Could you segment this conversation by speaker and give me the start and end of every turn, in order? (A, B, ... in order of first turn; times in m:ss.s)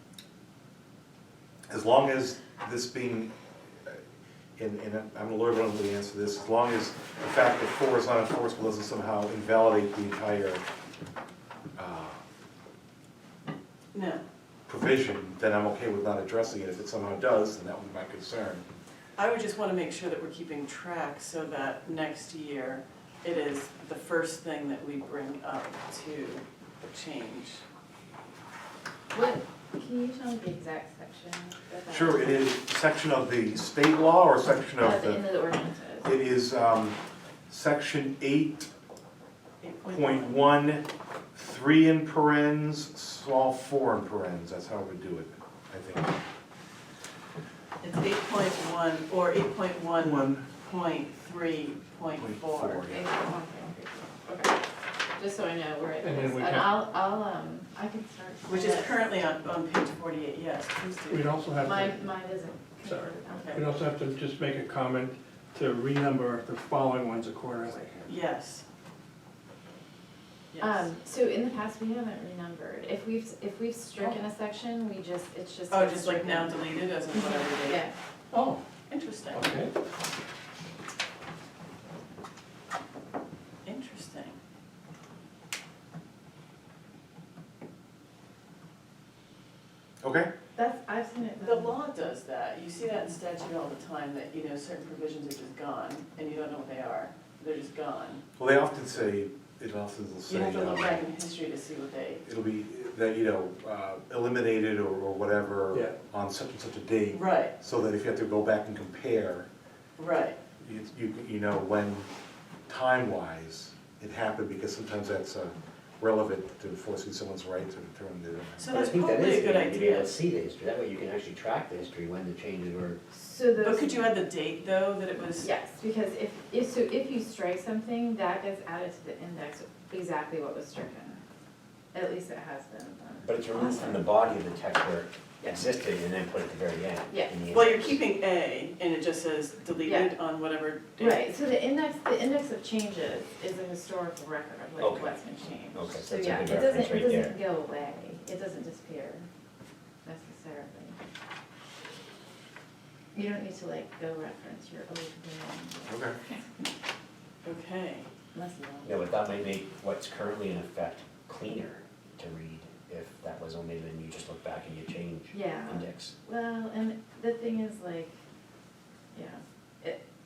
0:01.7-0:03.3 A
0:04.6-0:10.6 A
0:11.8-0:12.2 A
0:13.9-0:14.2 B
0:14.7-0:18.6 A
0:19.2-0:27.6 B
0:29.1-0:32.5 C
0:31.9-0:35.3 A
0:34.8-0:36.1 C
0:36.0-0:37.0 A
0:37.5-0:38.7 A
0:39.6-0:40.4 B
0:39.9-0:40.8 A
0:41.4-0:46.1 A
0:47.8-0:53.0 B
0:50.0-0:50.5 A
0:52.2-0:53.1 A
0:52.9-0:54.6 C
0:55.2-0:59.0 C
0:56.0-0:56.8 D
0:58.5-1:01.3 B
1:01.1-1:02.1 D
1:01.6-1:03.7 C
1:02.8-1:08.1 D
1:03.3-1:03.7 B
1:08.1-1:08.6 B
1:10.5-1:10.9 B
1:10.6-1:17.9 C
1:15.7-1:17.9 B
1:18.3-1:18.6 D
1:18.9-1:19.5 B
1:19.3-1:19.7 D
1:23.7-1:24.4 B
1:30.0-1:30.3 A
1:30.6-1:31.8 C
1:31.4-1:38.2 B
1:38.4-1:41.0 A
1:40.3-1:42.2 B
1:42.2-1:49.5 A
1:47.1-1:47.6 B
1:50.0-1:50.4 B
1:50.6-1:52.1 A
1:52.7-1:58.7 A
1:58.6-2:00.2 B
1:58.7-2:03.0 E
2:03.1-2:04.1 C
2:03.6-2:05.5 B
2:05.4-2:11.2 C
2:11.9-2:13.9 C
2:13.2-2:18.0 E
2:13.6-2:13.9 B
2:17.1-2:17.4 C
2:17.5-2:21.3 B
2:19.8-2:20.2 C
2:21.0-2:29.3 C
2:24.8-2:25.2 E
2:25.7-2:27.4 E
2:30.0-2:31.0 C
2:33.1-2:36.4 C
2:35.9-2:36.2 A
2:37.4-2:38.1 B
2:38.3-2:39.1 C
2:38.8-2:46.1 E
2:45.3-2:48.1 C
2:49.1-2:50.0 C